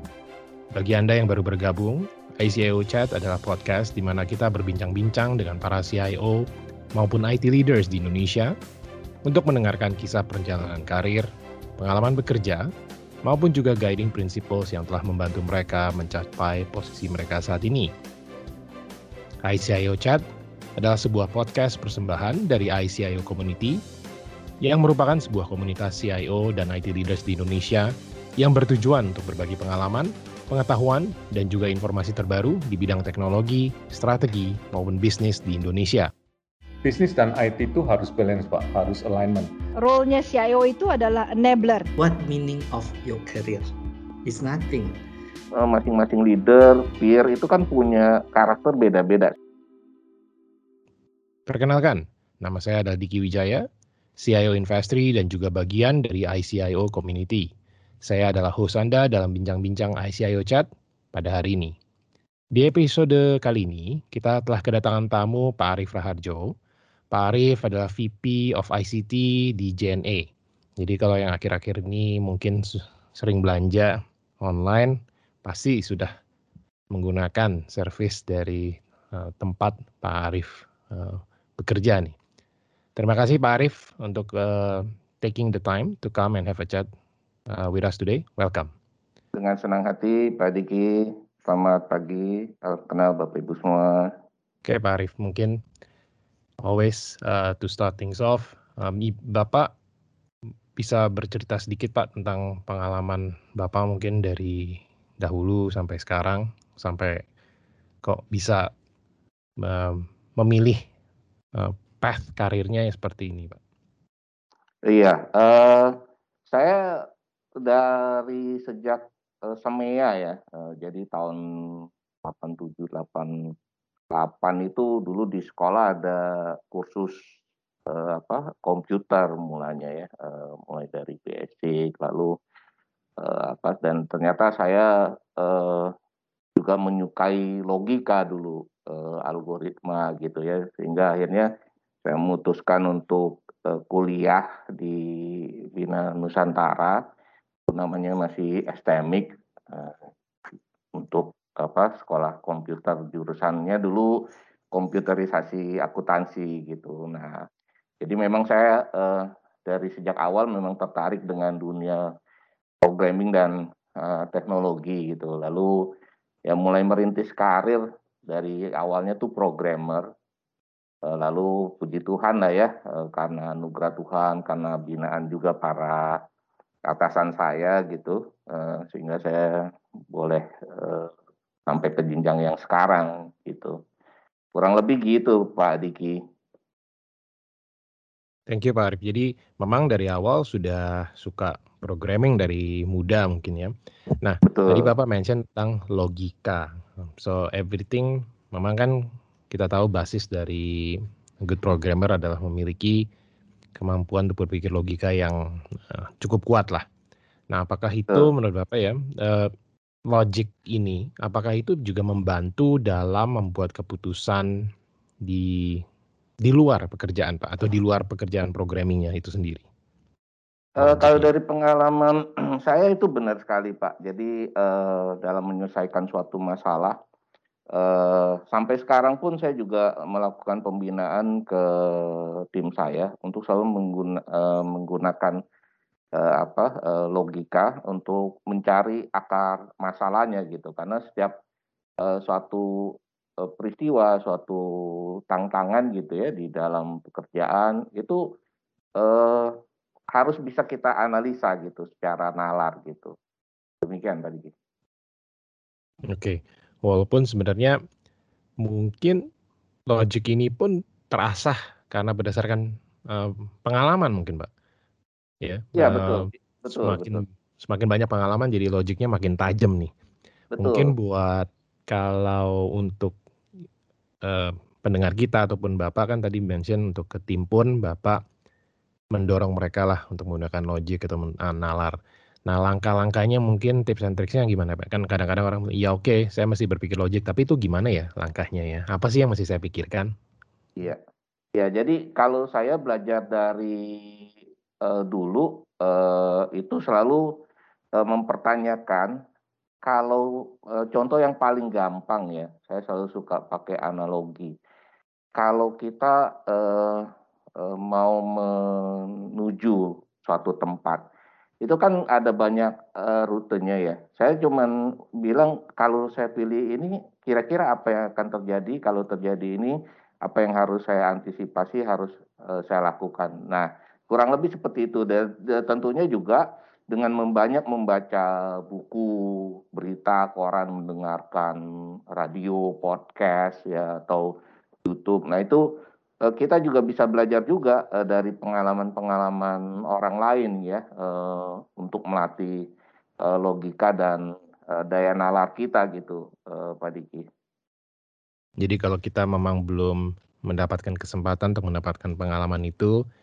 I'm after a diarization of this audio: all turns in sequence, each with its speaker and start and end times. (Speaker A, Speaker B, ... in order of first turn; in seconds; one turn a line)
Speaker A: 0.7-8.5
Speaker A: 9.2-12.7
Speaker A: 13.2-17.9
Speaker A: 19.4-20.2
Speaker A: 20.8-23.8
Speaker A: 24.6-36.1
Speaker B: 36.8-39.5
Speaker C: 39.8-41.9
Speaker D: 42.0-43.7
Speaker D: 44.2-45.0
Speaker E: 45.5-49.3
Speaker A: 51.5-53.6
Speaker A: 54.2-57.5
Speaker A: 58.0-61.7
Speaker A: 62.5-66.5
Speaker A: 67.1-70.3
Speaker A: 70.8-76.1
Speaker A: 76.9-82.1
Speaker A: 83.0-86.9
Speaker A: 87.5-88.7
Speaker E: 89.3-94.1
Speaker A: 94.6-95.6
Speaker A: 96.6-99.7
Speaker A: 100.8-107.2
Speaker A: 108.0-108.7
Speaker A: 109.6-110.8
Speaker A: 111.5-113.6
Speaker E: 114.9-116.0
Speaker E: 116.5-117.0
Speaker E: 117.6-123.3
Speaker E: 124.1-127.2
Speaker E: 127.9-132.3
Speaker E: 133.2-135.9
Speaker E: 136.6-141.5
Speaker E: 142.0-147.0
Speaker E: 147.7-150.0
Speaker E: 150.9-154.1
Speaker E: 154.7-157.4
Speaker E: 158.0-162.1
Speaker E: 162.8-165.8
Speaker E: 166.5-170.1
Speaker E: 171.0-176.2
Speaker E: 176.9-179.6
Speaker E: 180.1-181.1
Speaker E: 181.7-183.8
Speaker E: 184.5-186.2
Speaker A: 188.5-198.9
Speaker E: 194.4-194.9
Speaker A: 199.5-203.0
Speaker A: 203.8-205.4
Speaker A: 205.9-206.8
Speaker A: 207.5-209.5
Speaker A: 210.1-214.5
Speaker A: 215.2-215.8
Speaker A: 216.4-219.6
Speaker E: 220.8-227.0
Speaker A: 220.8-221.3
Speaker E: 227.7-235.4
Speaker E: 236.2-241.3
Speaker E: 242.0-242.6
Speaker E: 243.4-244.6
Speaker E: 245.3-248.2
Speaker E: 249.0-249.5
Speaker E: 250.1-253.1
Speaker E: 253.8-254.5
Speaker A: 256.1-257.8
Speaker A: 258.6-259.2
Speaker A: 259.9-264.5
Speaker A: 265.4-269.9
Speaker E: 265.8-267.2
Speaker E: 270.5-270.9
Speaker A: 270.6-273.1
Speaker A: 274.2-278.2
Speaker A: 279.1-281.9
Speaker A: 282.5-290.1
Speaker E: 291.6-294.3
Speaker E: 294.8-297.2
Speaker E: 298.0-299.1
Speaker E: 299.8-304.5
Speaker E: 305.4-311.0
Speaker E: 311.6-331.6
Speaker E: 332.1-334.3
Speaker E: 334.8-335.6
Speaker E: 336.2-342.6
Speaker E: 343.2-347.3
Speaker A: 348.6-352.9